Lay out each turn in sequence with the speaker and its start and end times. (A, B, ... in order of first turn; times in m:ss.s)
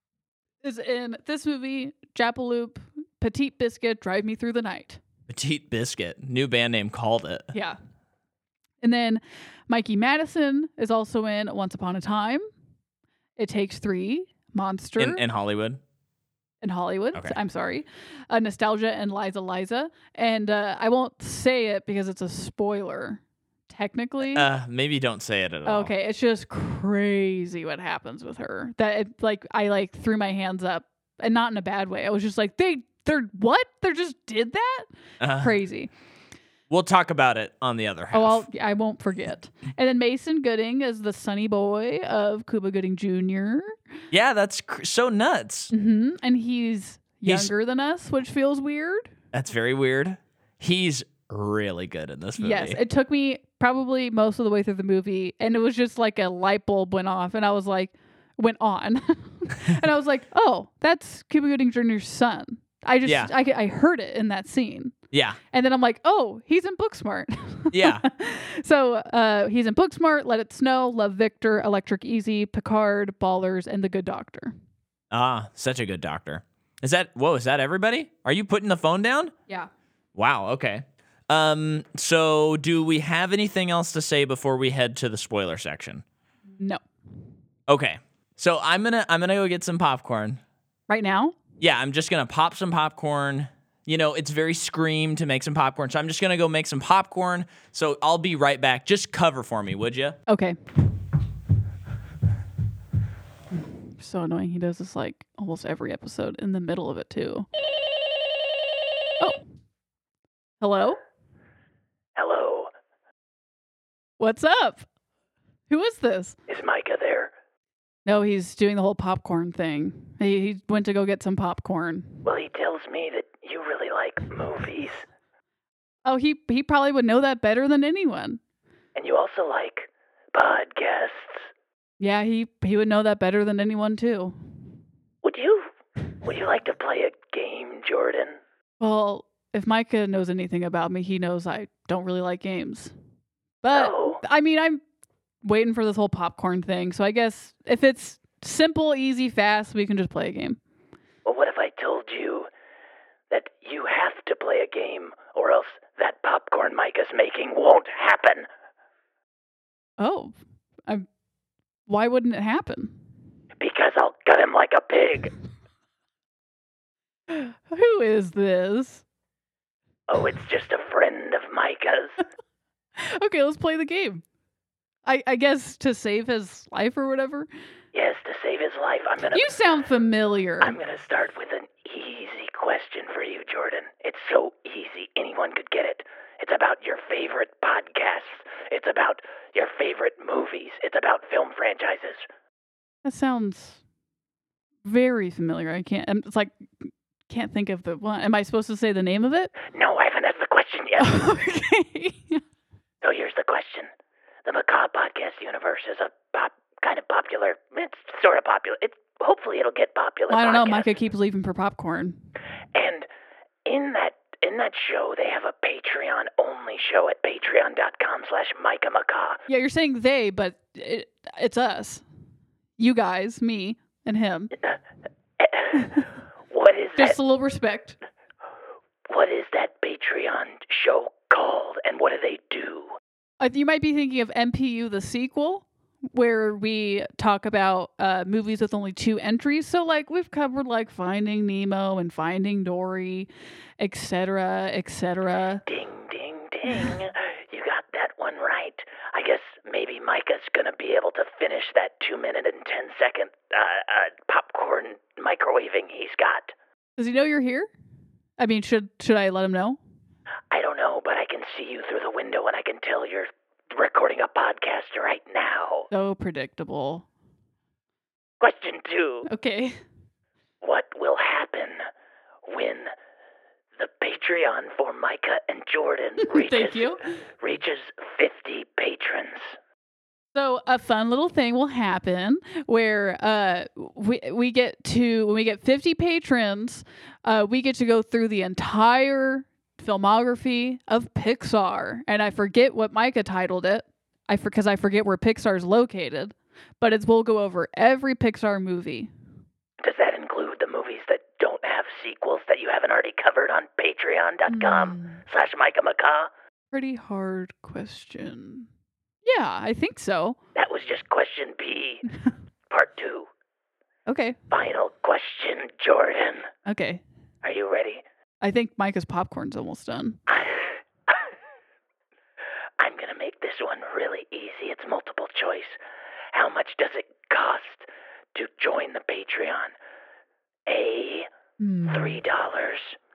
0:00.6-0:05.0 A
0:05.3-0:07.5 B
0:08.8-0:12.4 A
0:13.4-0:15.2 A
0:15.0-0:15.8 B
0:16.6-0:24.5 A
0:24.2-0:25.9 B
0:25.6-0:35.9 A
0:35.2-0:35.6 B
0:36.7-0:38.5 B
0:38.1-0:43.8 A
0:44.1-0:45.7 B
0:45.7-0:49.1 A
0:47.3-0:47.5 B
0:49.3-0:52.8 B
0:52.4-1:04.9 A
1:03.0-1:03.3 B
1:05.1-1:05.4 B
1:05.5-1:14.6 A
1:07.7-1:08.0 B
1:15.1-1:19.3 B
1:20.2-1:26.0 B
1:27.7-1:30.4 B
1:30.9-1:31.4 A
1:31.6-1:40.2 B
1:40.3-1:40.6 A
1:43.5-1:47.5 A
1:50.6-1:51.0 A
1:52.2-1:52.7 C
1:54.2-1:54.9 A
1:55.7-1:56.4 A
1:56.5-1:57.3 C
1:58.1-2:02.2 A
2:02.2-2:05.0 C
2:06.0-2:08.4 A
2:09.0-2:11.5 C
2:12.0-2:14.4 A
2:15.2-2:15.7 C
2:16.2-2:18.4 C
2:18.8-2:22.9 A
2:23.6-2:24.8 A
2:23.7-2:24.2 C
2:25.4-2:30.6 A
2:31.2-2:32.5 C
2:33.3-2:38.5 C
2:40.0-2:40.4 A
2:41.9-2:43.0 A
2:43.6-2:45.3 C
2:47.3-2:49.0 A
2:50.1-2:52.2 C
2:53.0-2:54.2 A
2:55.1-2:57.5 A
2:57.9-2:59.6 C
2:59.3-3:00.8 A
3:00.6-3:12.3 C
3:13.0-3:13.8 A
3:14.8-3:19.6 A
3:19.7-3:21.4 C
3:21.0-3:22.4 A
3:23.0-3:23.9 C
3:24.4-3:30.9 C
3:30.3-3:32.2 A
3:32.7-3:33.1 C
3:33.7-3:39.4 C
3:39.5-3:42.0 A
3:42.8-3:44.5 A
3:45.4-3:46.0 C
3:46.5-3:47.2 C
3:47.0-3:48.0 A
3:49.1-3:53.0 C
3:53.4-4:03.3 A
4:03.8-4:05.6 A
4:05.7-4:16.5 C
4:17.0-4:17.7 A
4:18.4-4:19.8 A
4:20.5-4:25.9 C
4:25.9-4:27.0 A
4:28.4-4:29.3 C
4:29.3-4:29.8 A
4:30.6-4:31.8 C
4:32.5-4:32.9 C
4:33.8-4:39.6 C
4:36.2-4:37.1 A
4:40.4-4:59.1 A
4:59.8-5:06.3 C
5:04.5-5:05.2 A
5:06.7-5:08.7 A
5:09.2-5:10.4 A
5:10.6-5:12.1 C
5:12.7-5:13.3 C
5:14.1-5:14.4 A
5:14.5-5:16.5 C
5:16.7-5:17.0 A
5:17.4-5:18.0 C
5:18.4-5:20.2 A
5:20.3-5:21.2 C
5:22.8-5:25.8 C
5:26.3-5:29.7 C
5:30.7-5:31.3 C
5:31.6-5:32.2 A
5:31.9-5:33.0 C